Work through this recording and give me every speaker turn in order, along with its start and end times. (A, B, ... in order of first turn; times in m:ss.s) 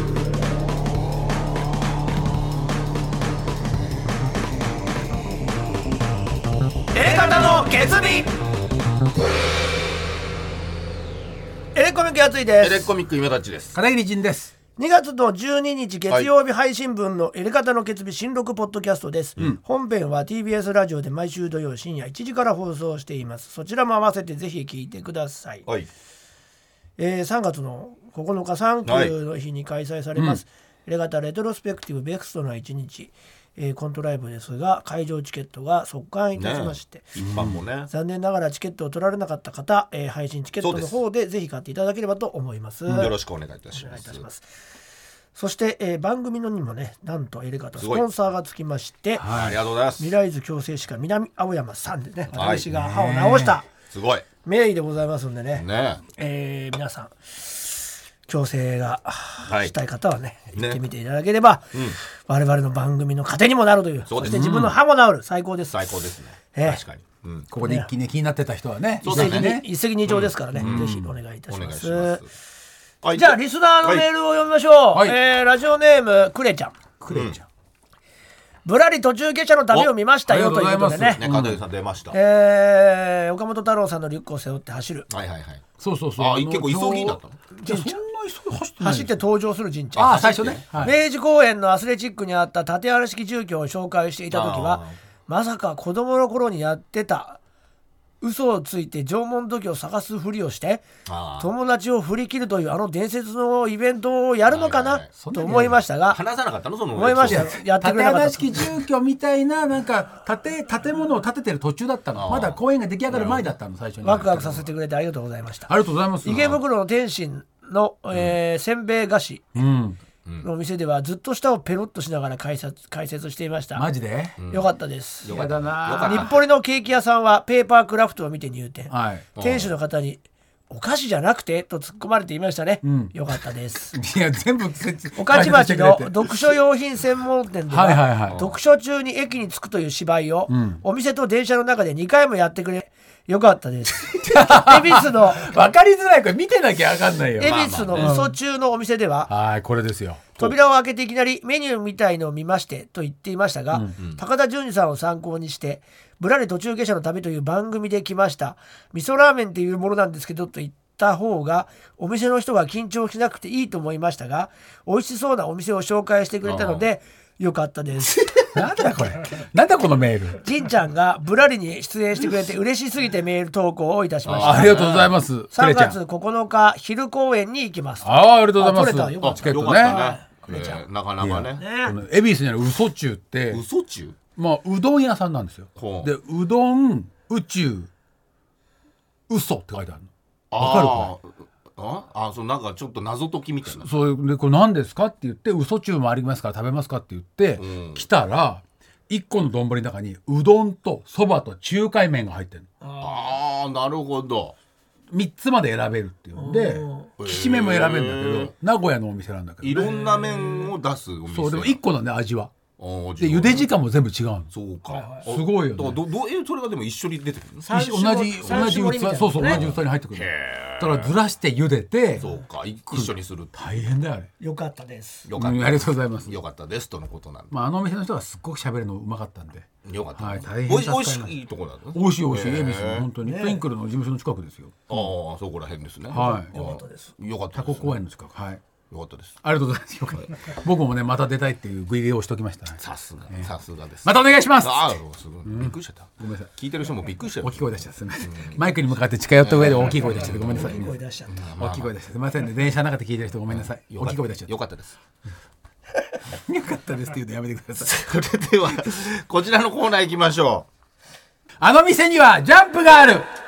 0:06.9-0:08.3 A
0:11.7-0:12.9 A
0:12.6-0:13.8 B
0:13.8-0:14.5 C
0:14.8-0:25.7 A
0:27.0-0:37.2 A
0:28.8-0:29.1 B
0:30.2-0:30.4 C
0:36.4-0:37.9 B
0:37.9-0:43.2 A
0:40.6-0:41.0 B
0:42.9-0:44.2 B
0:43.7-0:44.5 A
0:45.3-0:49.3 A
0:47.8-0:48.0 B
0:49.2-0:49.6 C
0:49.2-0:50.2 B
0:50.0-0:53.7 A
0:52.3-0:52.7 B
0:52.7-0:53.6 C
0:53.9-0:54.3 B
0:54.4-1:05.8 A
0:55.5-0:56.0 B
0:59.4-0:59.7 B
1:00.6-1:00.8 B
1:01.7-1:02.0 B
1:04.1-1:04.7 B
1:04.2-1:04.7 C
1:05.7-1:07.5 B
1:06.5-1:06.8 A
1:07.5-1:09.7 C
1:07.6-1:07.9 A
1:09.0-1:12.3 B
1:09.0-1:12.2 A
1:10.5-1:11.1 C
1:13.0-1:14.1 B
1:13.2-1:16.8 A
1:17.0-1:17.4 C
1:17.1-1:17.4 B
1:18.6-1:21.2 A
1:20.3-1:21.6 C
1:21.2-1:22.2 B
1:22.1-1:25.1 A
1:25.1-1:25.6 B
1:25.8-1:29.2 C
1:26.2-1:27.4 B
1:27.6-1:28.0 A
1:28.8-1:30.2 A
1:29.9-1:31.0 C
1:30.0-1:30.7 B
1:30.8-1:37.4 A
1:34.3-1:35.0 B
1:38.2-1:40.8 A
1:41.1-1:41.5 B
1:41.4-1:46.2 A
1:44.5-1:45.1 B
1:45.2-1:45.8 C
1:46.1-1:47.5 B
1:46.9-1:48.7 A
1:47.2-1:54.7 C
1:52.2-1:53.5 B
1:54.0-1:59.6 A
1:55.7-1:56.5 C
1:56.3-1:56.6 B
1:59.6-2:00.0 C
2:00.4-2:03.9 A
2:03.8-2:04.4 C
2:04.4-2:04.7 B
2:04.5-2:05.4 A
2:05.2-2:06.5 B
2:05.3-2:06.3 C
2:06.0-2:14.0 A
2:08.9-2:09.3 C
2:09.4-2:09.7 B
2:12.8-2:13.2 C
2:13.9-2:16.6 C
2:15.2-2:25.7 A
2:17.7-2:18.4 C
2:18.3-2:18.6 B
2:20.5-2:20.8 C
2:24.2-2:28.4 C
2:27.4-2:29.3 A
2:27.4-2:28.2 B
2:29.3-2:30.3 C
2:30.4-2:48.2 A
2:46.4-2:46.9 B
2:48.6-2:50.4 C
2:50.4-2:54.9 A
2:54.2-2:55.1 B
2:54.4-2:56.0 C
2:55.5-3:00.8 A
2:58.0-3:00.0 C
2:59.2-3:01.6 B
3:01.2-3:03.6 C
3:01.6-3:02.0 A
3:03.5-3:04.2 B
3:04.4-3:07.9 C
3:05.8-3:06.1 B
3:09.3-3:11.1 C
3:10.5-3:13.9 B
3:13.6-3:22.7 C
3:17.6-3:18.1 B
3:22.8-3:23.4 A
3:23.0-3:24.6 B
3:25.1-3:30.3 C
3:26.4-3:27.1 A
3:27.2-3:28.5 B
3:29.6-3:31.8 B
3:29.7-3:30.7 A
3:31.3-3:32.5 C
3:32.8-3:33.7 B
3:33.2-3:34.5 C
3:34.5-3:37.8 B
3:34.9-3:35.3 A
3:35.2-3:36.0 C
3:37.6-3:39.6 A
3:37.7-3:42.3 C
3:38.4-3:38.8 B
3:39.4-3:41.1 B
3:42.2-3:43.5 B
3:42.9-3:44.3 C
3:44.4-3:45.3 A
3:45.2-3:47.5 B
3:45.4-3:46.4 C
3:47.5-3:51.4 C
3:49.8-3:53.1 B
3:51.9-3:55.1 C
3:53.2-3:53.7 A
3:54.9-3:58.0 B
3:56.1-3:56.6 C
3:56.1-3:57.1 A
3:57.5-3:58.6 C
3:58.9-3:59.4 B
3:59.4-4:03.5 C
4:02.8-4:11.9 B
4:04.0-4:06.5 C
4:07.4-4:11.0 C
4:10.2-4:11.4 A
4:11.6-4:14.5 C
4:13.5-4:15.0 B
4:16.3-4:18.0 C
4:17.8-4:20.7 B
4:21.6-4:23.3 C